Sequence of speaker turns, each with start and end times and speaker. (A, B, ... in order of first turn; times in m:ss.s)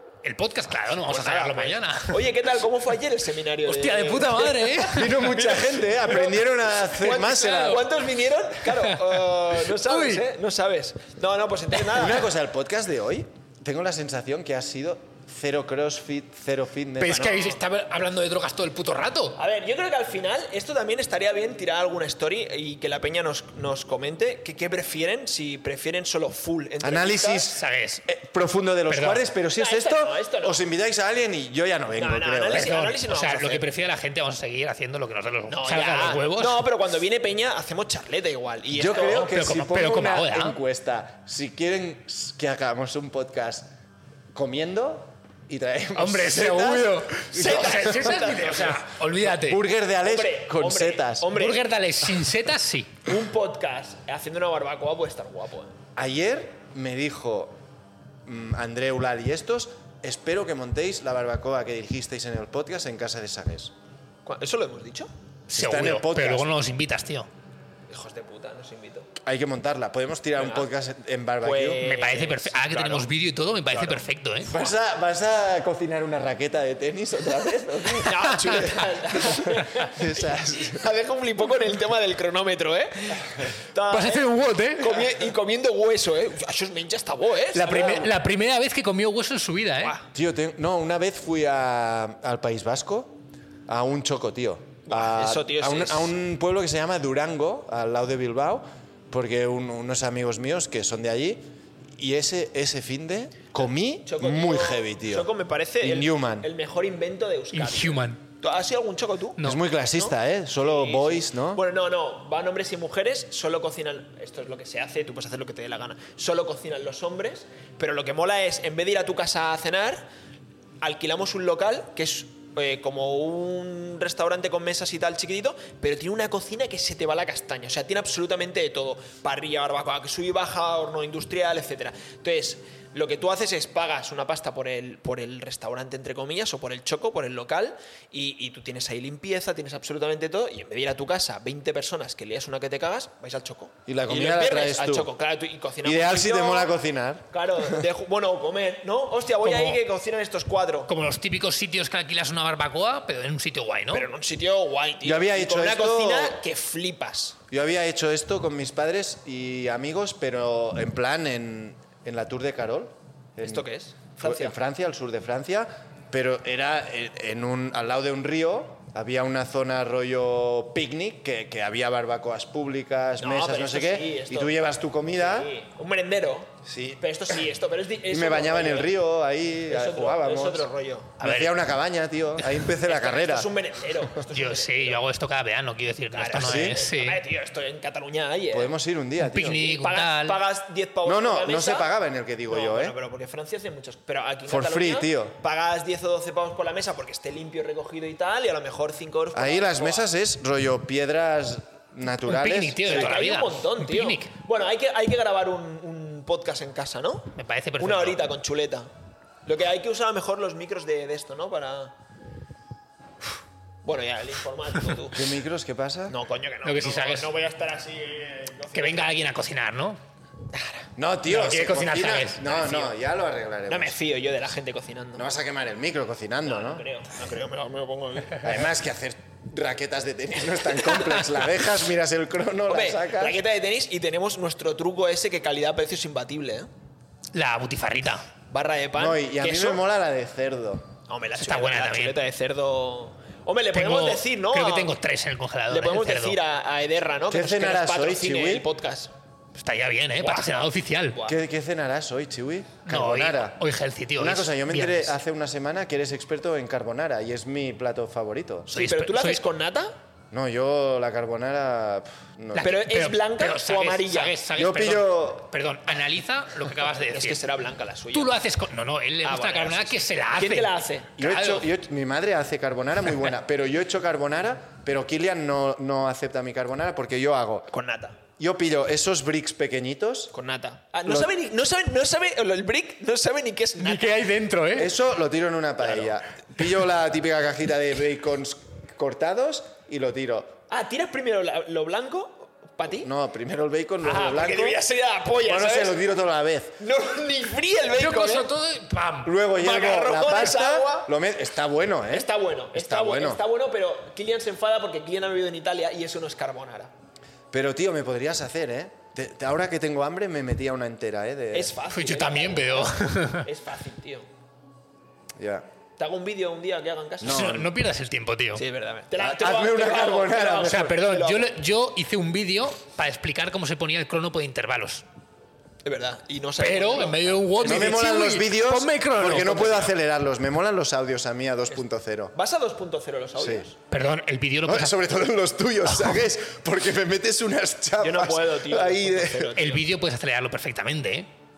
0:00.2-0:02.3 A
0:01.0-0:12.3 B
0:03.6-0:05.4 A
0:04.9-0:07.8 C
0:07.5-0:07.8 A
0:08.7-0:10.2 A
0:11.9-0:17.3 C
0:17.0-0:19.4 A
0:17.1-0:17.6 B
0:19.4-0:27.5 B
0:26.8-0:32.7 C
0:27.5-0:28.0 A
0:28.9-0:29.2 A
0:29.5-0:30.6 B
0:32.0-0:33.7 B
0:32.5-0:36.7 A
0:35.5-0:39.3 B
0:38.7-0:43.7 C
0:39.0-0:40.6 A
0:44.3-0:48.2 C
0:46.0-0:49.6 A
0:47.3-0:48.9 B
0:49.2-0:51.3 C
0:50.0-0:51.6 B
0:51.3-0:53.0 A
0:53.0-0:55.8 B
0:56.0-0:57.6 C
0:58.2-1:03.7 C
1:04.2-1:05.1 B
1:05.5-1:07.3 A
1:05.5-1:06.5 C
1:07.9-1:09.1 B
1:09.2-1:11.8 C
1:10.3-1:10.7 B
1:11.4-1:13.1 B
1:11.8-1:14.5 A
1:13.7-1:14.7 B
1:14.4-1:20.8 C
1:18.0-1:28.1 B
1:23.9-1:25.1 A
1:27.5-1:30.0 A
1:29.8-1:30.0 B
1:30.1-1:41.4 C
1:34.9-1:36.1 B
1:42.0-1:45.3 C
1:44.0-1:49.4 B
1:45.8-1:46.5 C
1:47.5-1:48.2 A
1:49.4-1:51.6 C
1:49.9-2:00.0 B
2:00.8-2:26.7 B
2:23.9-2:25.1 C
2:25.8-2:27.8 C
2:27.3-2:30.9 B
2:29.4-2:29.8 A
2:30.9-2:34.1 A
2:33.9-2:37.4 B
2:35.0-2:36.4 C
2:37.5-2:43.6 C
2:43.4-2:44.6 B
2:44.2-2:55.5 C
2:53.2-2:54.5 B
2:55.1-2:58.9 B
2:56.6-2:57.0 C
2:58.1-3:00.7 C
2:59.7-3:01.2 B
3:01.2-3:01.6 A
3:01.2-3:03.5 C
3:02.8-3:05.0 B
3:04.3-3:07.2 A
3:06.1-3:08.8 B
3:06.4-3:06.8 C
3:08.5-3:09.6 C
3:09.2-3:10.4 A
3:09.4-3:11.9 B
3:11.0-3:13.0 C
3:12.5-3:20.1 B
3:14.5-3:15.4 C
3:19.3-3:23.1 C
3:22.2-3:24.3 A
3:22.8-3:28.9 B
3:27.4-3:28.3 A
3:29.4-3:32.0 B
3:33.8-3:35.3 B
3:35.1-3:36.1 C
3:36.1-3:39.1 B
3:36.6-3:37.3 A
3:38.7-3:40.0 A
3:41.0-3:44.0 C
3:41.3-3:42.4 A
3:42.4-3:43.0 B
3:43.7-3:45.3 B
3:45.2-3:46.8 C
3:46.4-3:48.7 B
3:48.4-3:53.4 C
3:50.9-3:51.2 B
3:52.7-3:56.7 B
3:57.3-3:58.3 A
3:58.5-3:59.8 B
3:59.0-4:00.9 C
4:01.1-4:04.9 B
4:01.4-4:02.2 A
4:03.7-4:06.4 A
4:05.7-4:09.1 B
4:07.3-4:08.7 C
4:09.6-4:11.2 A
4:10.2-4:11.4 B
4:11.2-4:13.6 C
4:12.8-4:15.2 A
4:14.2-4:18.7 C
4:18.7-4:19.4 A
4:18.7-4:19.9 B
4:20.3-4:22.7 C
4:22.5-4:27.4 A
4:22.6-4:24.3 B
4:24.6-4:25.5 C
4:27.0-4:28.4 B
4:28.1-4:30.8 A
4:29.2-4:31.6 B
4:31.2-4:37.7 C
4:37.7-4:38.2 B
4:38.4-4:40.3 C
4:40.3-4:44.2 B
4:41.0-4:41.3 C
4:43.8-4:44.9 A
4:44.7-4:50.6 C
4:45.8-4:46.1 B
4:50.7-4:53.1 B
4:53.0-4:54.8 C
4:54.0-4:56.0 B
4:55.4-4:56.8 C
4:56.8-4:58.5 B
4:58.0-4:59.3 A
4:59.2-5:03.4 C
4:59.5-5:01.1 B
5:02.1-5:06.9 B
5:07.5-5:11.8 C
5:11.5-5:14.3 B
5:11.9-5:13.4 A
5:15.4-5:15.7 C
5:16.0-5:17.5 B
5:17.2-5:17.7 C
5:17.2-5:18.6 A
5:18.5-5:21.5 B
5:19.2-5:20.9 C
5:20.6-5:25.0 A
5:25.8-5:27.9 B
5:26.6-5:29.7 A
5:27.6-5:32.3 C
5:29.2-5:29.9 B
5:32.3-5:33.7 B
5:33.4-5:33.7 C
5:33.9-5:34.9 A
5:34.7-5:39.5 C
5:38.0-5:39.9 B
5:39.6-5:41.3 A